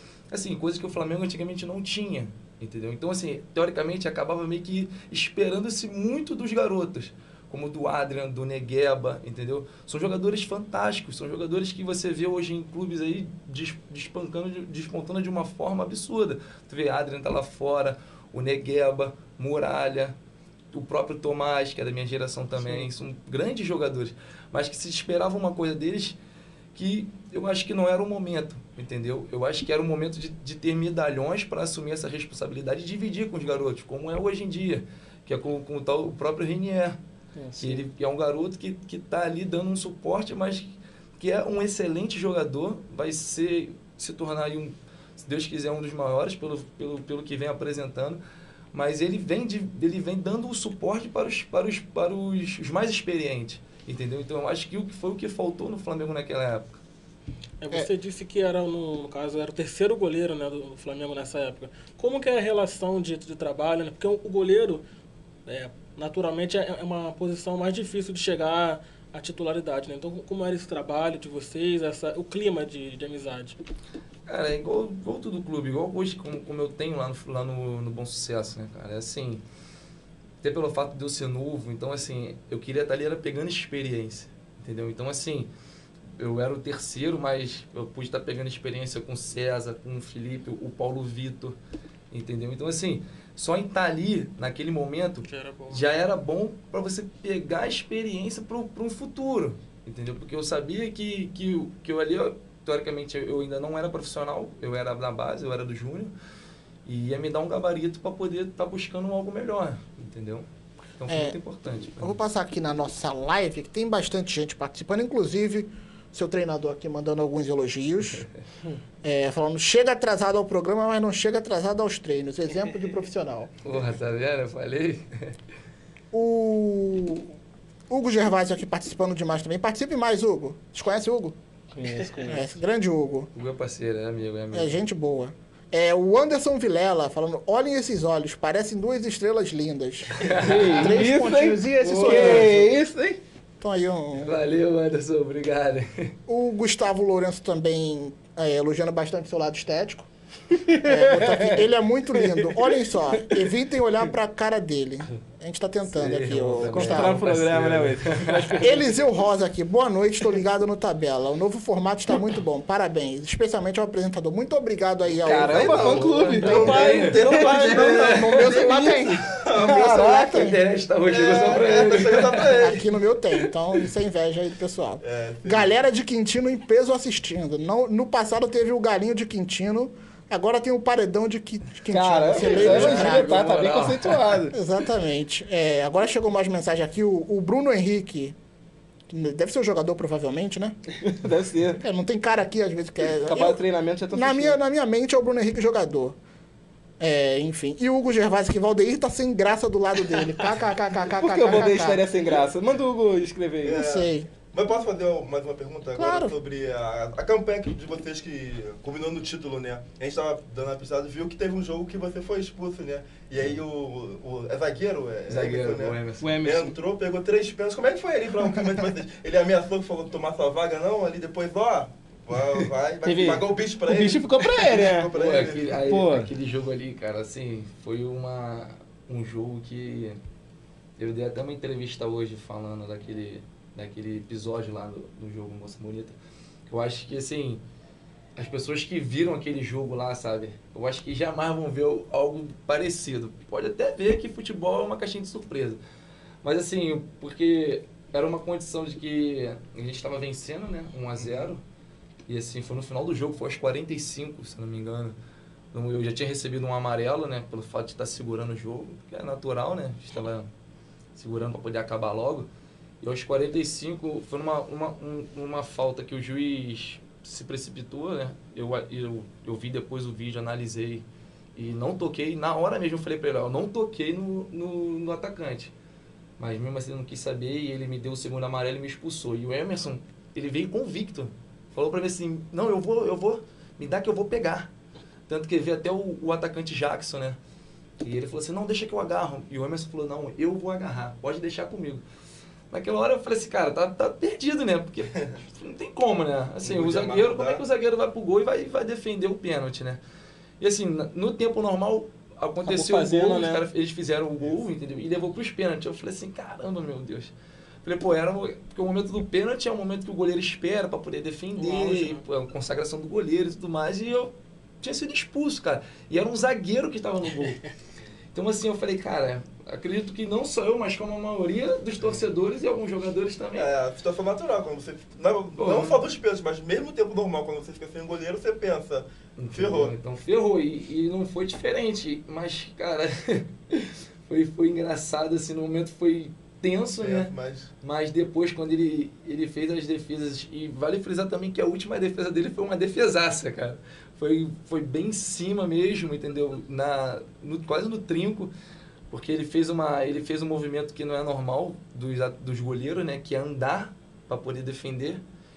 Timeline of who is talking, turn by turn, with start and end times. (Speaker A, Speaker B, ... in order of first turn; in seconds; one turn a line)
Speaker A: 0.3-20.1
Speaker A: 20.7-26.2
Speaker B: 22.6-22.9
Speaker A: 26.7-37.0
Speaker B: 37.4-37.8
Speaker A: 37.6-48.2
Speaker A: 48.7-56.8
Speaker C: 57.6-64.8
Speaker C: 65.5-73.6
Speaker A: 74.3-79.4
Speaker A: 80.4-85.5
Speaker A: 86.2-91.6
Speaker A: 92.1-106.1
Speaker C: 95.3-95.8
Speaker A: 106.8-110.5
Speaker A: 111.0-112.2
Speaker D: 111.1-111.4
Speaker D: 112.0-118.2
Speaker D: 119.0-123.5
Speaker A: 123.6-125.4
Speaker D: 126.1-127.3
Speaker D: 127.9-131.4
Speaker B: 131.7-132.5
Speaker D: 132.2-133.3
Speaker A: 133.3-134.8
Speaker D: 134.5-142.7
Speaker A: 140.2-141.0
Speaker B: 140.4-143.2
Speaker D: 143.6-144.4
Speaker A: 144.1-146.2
Speaker D: 146.3-150.1
Speaker B: 150.7-151.6
Speaker D: 150.8-157.2
Speaker B: 152.2-153.4
Speaker A: 155.9-158.6
Speaker B: 156.6-159.0
Speaker D: 158.6-166.8
Speaker B: 165.2-169.0
Speaker E: 165.3-170.0
Speaker A: 165.7-168.0
Speaker D: 167.3-170.6
Speaker B: 169.6-170.3
Speaker A: 169.9-172.6
Speaker E: 171.1-172.9
Speaker D: 172.4-183.4
Speaker E: 175.0-175.7
Speaker B: 181.9-184.5
Speaker A: 182.4-184.5
Speaker D: 184.5-188.4
Speaker D: 189.1-190.8
Speaker B: 191.0-191.8
Speaker D: 191.8-193.6
Speaker B: 193.1-194.6
Speaker D: 194.1-196.2
Speaker D: 197.0-202.0
Speaker B: 201.2-203.8
Speaker E: 203.6-225.8
Speaker D: 203.7-204.3
Speaker D: 205.9-206.3
Speaker A: 215.3-216.3
Speaker B: 216.2-216.8
Speaker B: 223.0-225.1
Speaker A: 225.1-230.2
Speaker B: 225.8-226.3
Speaker A: 231.0-236.2
Speaker A: 236.7-237.6
Speaker A: 238.3-245.8
Speaker A: 246.4-251.6
Speaker E: 251.1-251.5
Speaker A: 252.3-255.2
Speaker A: 255.7-260.5
Speaker A: 261.1-262.5
Speaker A: 263.0-275.7
Speaker A: 276.4-284.7
Speaker A: 285.3-287.4
Speaker A: 288.0-292.0
Speaker A: 292.7-300.0
Speaker E: 296.6-297.6
Speaker A: 300.6-307.3
Speaker B: 302.6-303.6
Speaker A: 307.8-317.6
Speaker C: 311.6-312.2
Speaker A: 318.3-323.7
Speaker E: 323.6-329.9
Speaker A: 325.6-326.0
Speaker A: 329.4-348.5
Speaker E: 337.0-337.7
Speaker A: 349.1-355.2